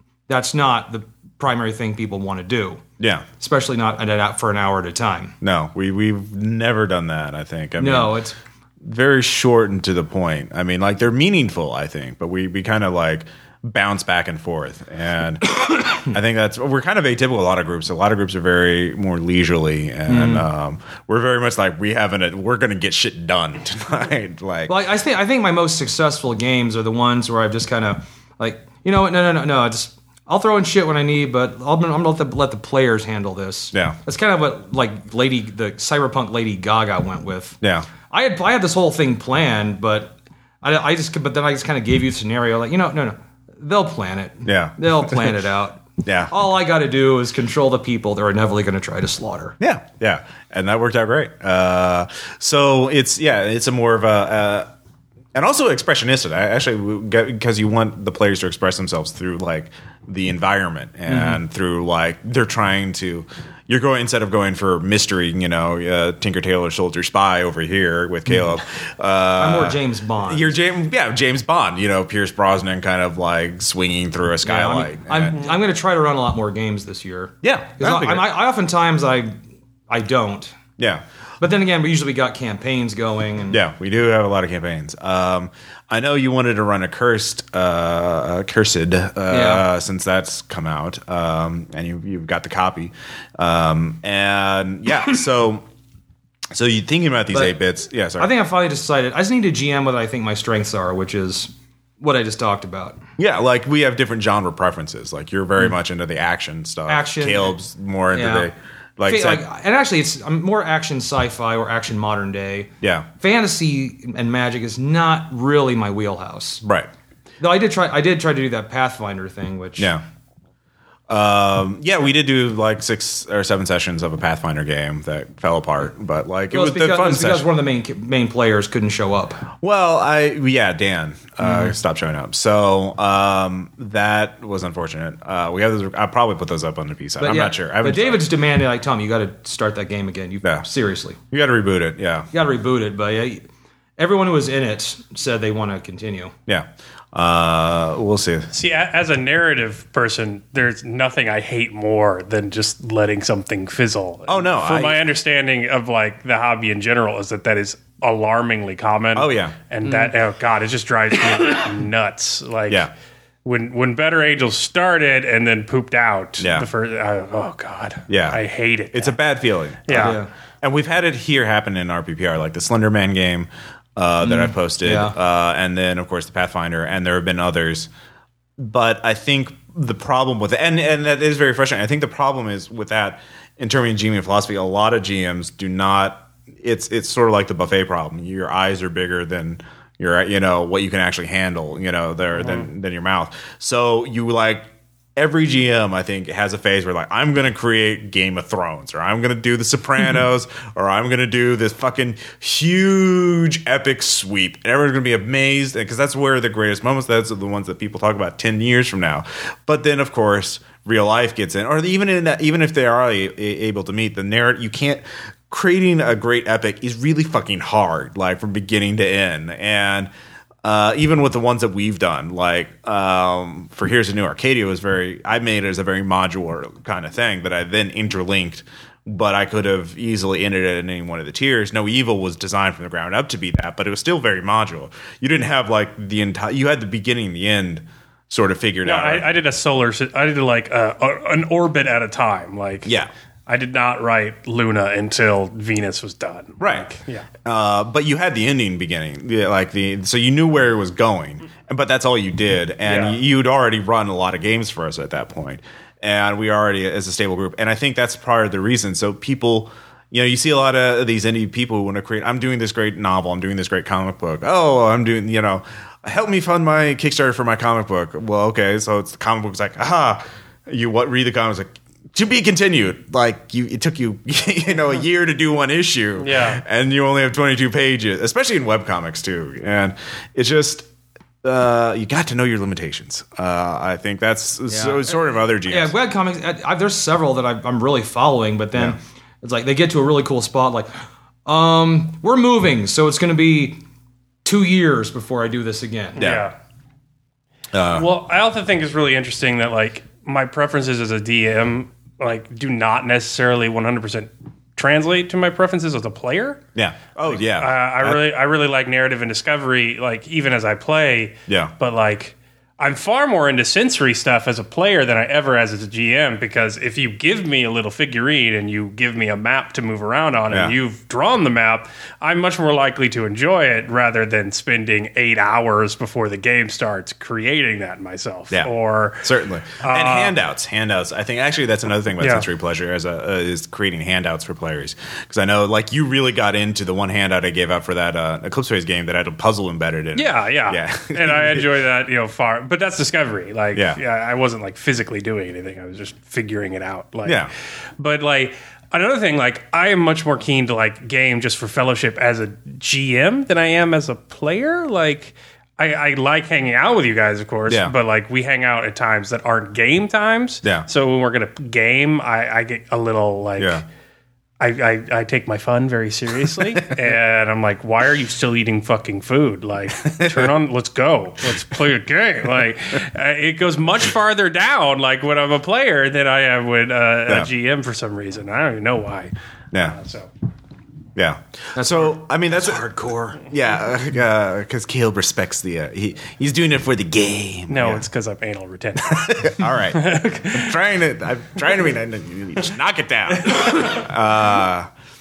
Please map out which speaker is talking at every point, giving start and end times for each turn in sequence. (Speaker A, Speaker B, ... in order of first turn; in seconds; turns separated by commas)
Speaker A: 0.3-2.8, Speaker B: 3.0-3.2, Speaker A: 3.4-5.3, Speaker B: 5.4-8.1, Speaker A: 7.8-8.4, Speaker B: 8.8-24.7, Speaker A: 20.1-20.4, Speaker A: 24.7-37.6, Speaker B: 37.6-37.9, Speaker A: 38.1-49.6, Speaker B: 44.4-45.3, Speaker B: 46.0-46.3, Speaker B: 49.6-54.7, Speaker B: 55.3-75.4, Speaker A: 61.1-61.4, Speaker A: 69.4-70.5, Speaker A: 74.4-79.3, Speaker B: 77.4-78.3, Speaker A: 79.9-80.5, Speaker B: 80.8-81.0, Speaker A: 81.4-83.6, Speaker B: 83.5-95.7, Speaker A: 89.3-89.6, Speaker B: 96.5-98.3, Speaker A: 98.2-103.0, Speaker B: 103.2-109.4, Speaker A: 106.9-107.5, Speaker A: 108.1-108.5, Speaker A: 109.0-116.6, Speaker B: 112.8-113.1, Speaker B: 116.6-116.9, Speaker A: 117.4-119.9, Speaker B: 119.8-120.0, Speaker B: 121.1-127.5, Speaker A: 126.5-129.5, Speaker B: 129.6-138.2, Speaker A: 131.4-131.7, Speaker A: 137.2-141.2, Speaker B: 141.3-142.3, Speaker A: 142.3-143.4, Speaker A: 144.0-146.3, Speaker B: 146.5-148.5, Speaker C: 148.5-162.9, Speaker B: 154.3-155.0, Speaker B: 159.1-159.6, Speaker A: 159.8-160.1, Speaker C: 163.4-169.1, Speaker B: 166.4-166.7, Speaker B: 168.1-168.4, Speaker B: 168.9-177.9, Speaker C: 169.9-170.2, Speaker A: 169.9-170.3, Speaker A: 174.2-175.1, Speaker B: 178.6-220.1, Speaker B: 220.6-239.2, Speaker C: 238.8-242.9, Speaker B: 242.8-243.1, Speaker C: 243.5-247.3, Speaker B: 246.6-246.9, Speaker B: 247.4-280.9, Speaker C: 252.8-253.2, Speaker C: 276.2-276.6, Speaker B: 281.4-285.9, Speaker A: 284.7-290.9, Speaker A: 291.4-293.8, Speaker A: 294.4-296.3, Speaker C: 296.1-296.5, Speaker B: 296.2-296.4, Speaker B: 297.7-298.1, Speaker C: 297.9-306.6, Speaker B: 306.7-308.2, Speaker C: 307.2-329.2, Speaker B: 311.5-311.7, Speaker B: 329.2-341.6, Speaker C: 329.8-330.3, Speaker C: 332.2-332.4, Speaker C: 340.1-347.5, Speaker B: 343.7-344.0, Speaker B: 347.2-347.5, Speaker C: 348.0-363.8, Speaker B: 363.6-363.8, Speaker C: 364.6-380.3, Speaker B: 370.1-370.5, Speaker B: 381.1-382.8, Speaker A: 381.7-383.4, Speaker B: 383.4-388.0, Speaker C: 387.7-390.7, Speaker B: 389.0-394.9, Speaker C: 393.4-394.1